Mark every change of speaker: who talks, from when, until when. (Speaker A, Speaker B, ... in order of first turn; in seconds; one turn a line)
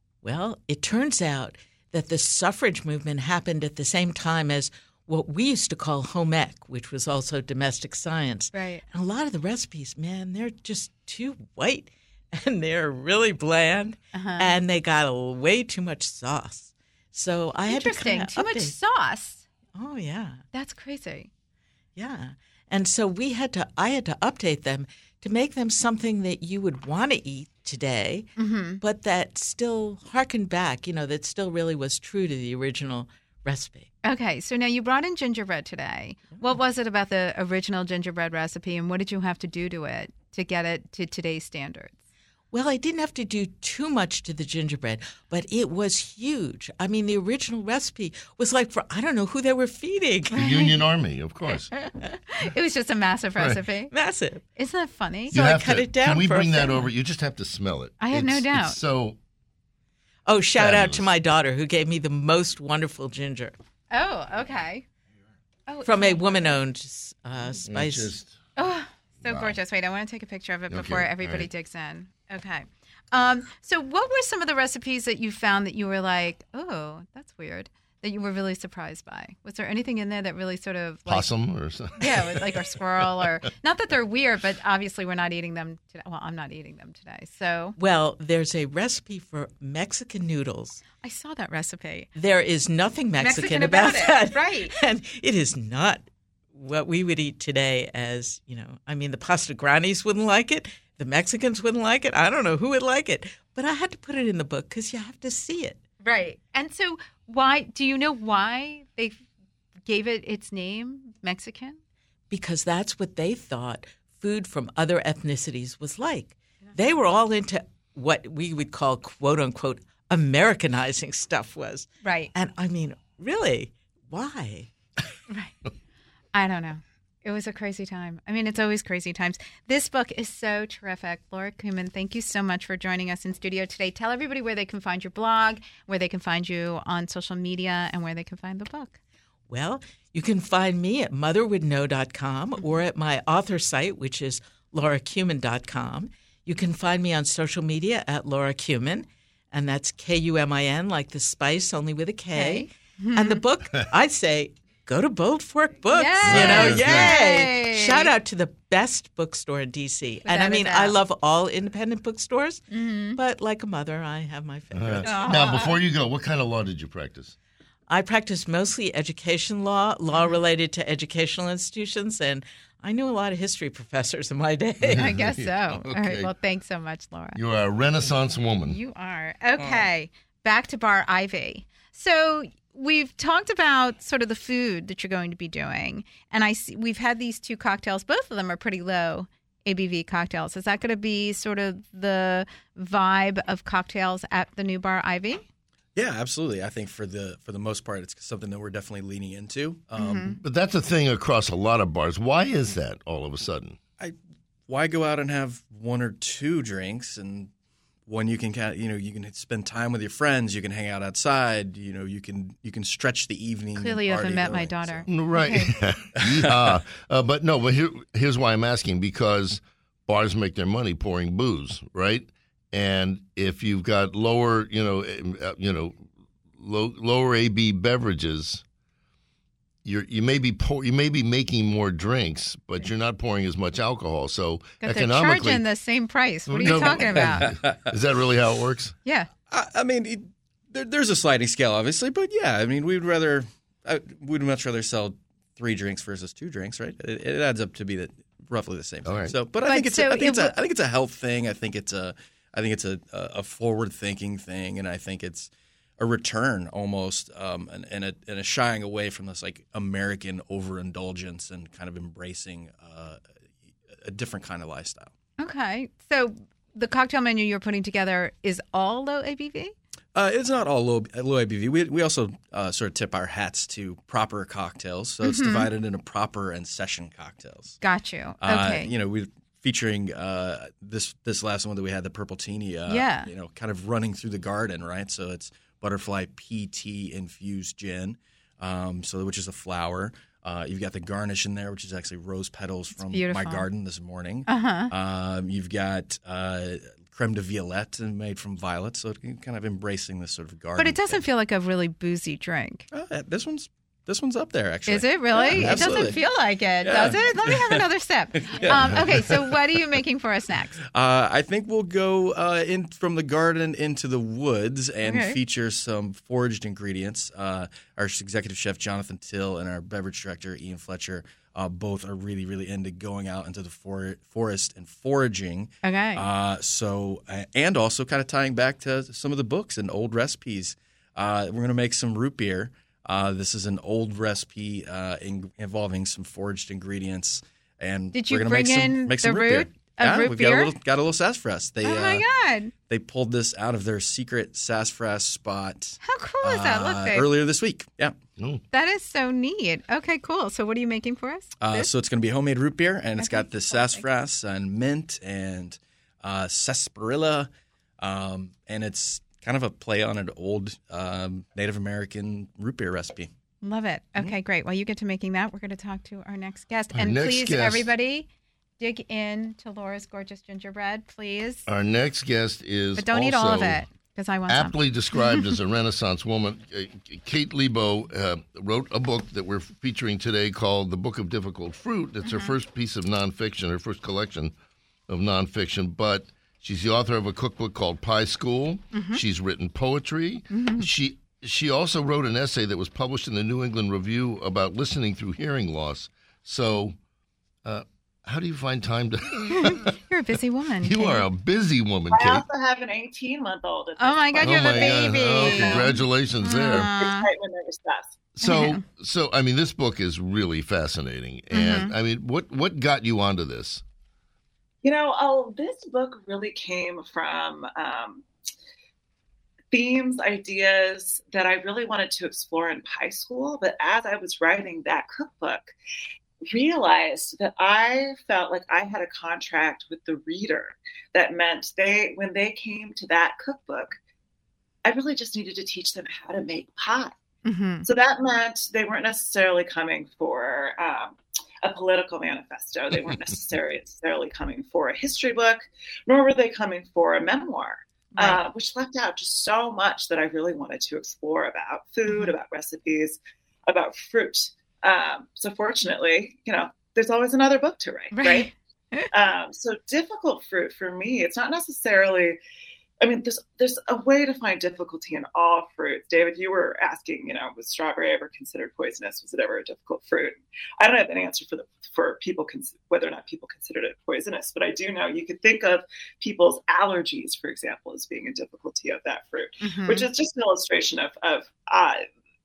Speaker A: 0.2-18.8
Speaker B: 8.5-8.8
Speaker B: 14.1-14.6
Speaker B: 17.7-19.4
Speaker A: 19.8-20.4
Speaker B: 20.5-21.3
Speaker A: 22.0-28.3
Speaker B: 28.4-28.8
Speaker A: 28.8-33.9
Speaker B: 34.0-42.0
Speaker A: 42.5-50.5
Speaker B: 50.3-50.7
Speaker C: 50.4-51.7
Speaker B: 51.7-53.9
Speaker A: 53.9-54.4
Speaker B: 54.6-55.6
Speaker C: 55.3-59.2
Speaker A: 55.3-56.8
Speaker B: 58.0-58.8
Speaker A: 60.3-63.5
Speaker C: 60.6-61.1
Speaker B: 63.9-64.8
Speaker B: 65.7-66.6
Speaker A: 65.8-68.2
Speaker C: 67.7-68.4
Speaker B: 68.6-81.3
Speaker C: 69.2-69.6
Speaker C: 70.7-71.5
Speaker C: 81.1-83.3
Speaker B: 82.0-87.8
Speaker A: 87.8-90.8
Speaker B: 91.0-92.1
Speaker A: 92.2-105.8
Speaker B: 93.2-94.8
Speaker B: 106.0-109.2
Speaker B: 109.9-111.8
Speaker A: 112.3-124.7
Speaker B: 122.0-122.3
Speaker B: 125.3-125.6
Speaker B: 126.3-139.0
Speaker A: 139.5-162.6
Speaker B: 152.3-153.4
Speaker B: 155.9-158.1
Speaker C: 156.3-157.2
Speaker B: 160.2-160.9
Speaker B: 162.7-163.2
Speaker A: 163.2-165.5
Speaker C: 164.7-167.3
Speaker B: 165.0-165.8
Speaker A: 167.9-175.1
Speaker C: 174.8-176.3
Speaker B: 174.9-177.4
Speaker C: 177.3-178.8
Speaker B: 178.7-195.4
Speaker D: 196.0-200.4
Speaker B: 200.0-200.4
Speaker C: 200.4-203.8
Speaker D: 204.7-207.5
Speaker D: 208.1-215.1
Speaker B: 213.8-215.7
Speaker C: 215.1-228.6
Speaker D: 216.2-216.5
Speaker C: 229.8-235.7
Speaker B: 234.8-237.5
Speaker C: 236.5-238.9
Speaker D: 236.7-237.9
Speaker D: 239.5-263.2
Speaker C: 249.1-249.4
Speaker B: 249.7-250.6
Speaker D: 263.9-265.1
Speaker B: 265.4-269.7
Speaker D: 270.1-277.8
Speaker B: 275.2-275.7
Speaker B: 277.8-278.9
Speaker D: 278.4-301.2
Speaker B: 282.9-283.3
Speaker B: 293.0-293.6
Speaker B: 294.5-294.9
Speaker B: 300.8-302.9
Speaker D: 302.9-306.3
Speaker B: 304.9-310.8
Speaker C: 305.5-305.9
Speaker D: 306.8-309.4
Speaker C: 308.7-309.2
Speaker D: 310.9-342.2
Speaker B: 315.0-315.4
Speaker B: 325.8-326.2
Speaker B: 338.1-340.7
Speaker B: 341.8-342.7
Speaker D: 342.9-348.2
Speaker B: 346.0-347.3
Speaker C: 348.4-348.6
Speaker B: 348.7-351.9
Speaker D: 351.6-363.3
Speaker B: 353.2-354.1
Speaker B: 363.6-368.3
Speaker C: 366.9-367.9
Speaker B: 368.8-371.6
Speaker C: 371.7-373.8
Speaker B: 373.0-375.5
Speaker C: 374.5-384.6
Speaker B: 382.2-382.5
Speaker C: 385.1-397.0
Speaker B: 388.9-389.2
Speaker B: 390.5-390.9
Speaker C: 397.6-399.9
Speaker B: 399.5-401.2
Speaker C: 400.8-402.4
Speaker E: 402.1-406.1
Speaker B: 404.0-407.3
Speaker C: 404.4-406.9
Speaker E: 406.7-408.2
Speaker C: 408.4-413.8
Speaker B: 408.4-408.8
Speaker B: 411.5-411.9
Speaker E: 414.8-418.2
Speaker E: 419.7-425.7
Speaker E: 426.5-434.0
Speaker E: 434.9-437.1
Speaker B: 437.4-437.9
Speaker E: 437.8-458.5
Speaker B: 452.1-452.3
Speaker B: 458.1-459.1
Speaker E: 459.1-462.4
Speaker E: 463.0-482.0
Speaker B: 479.6-480.1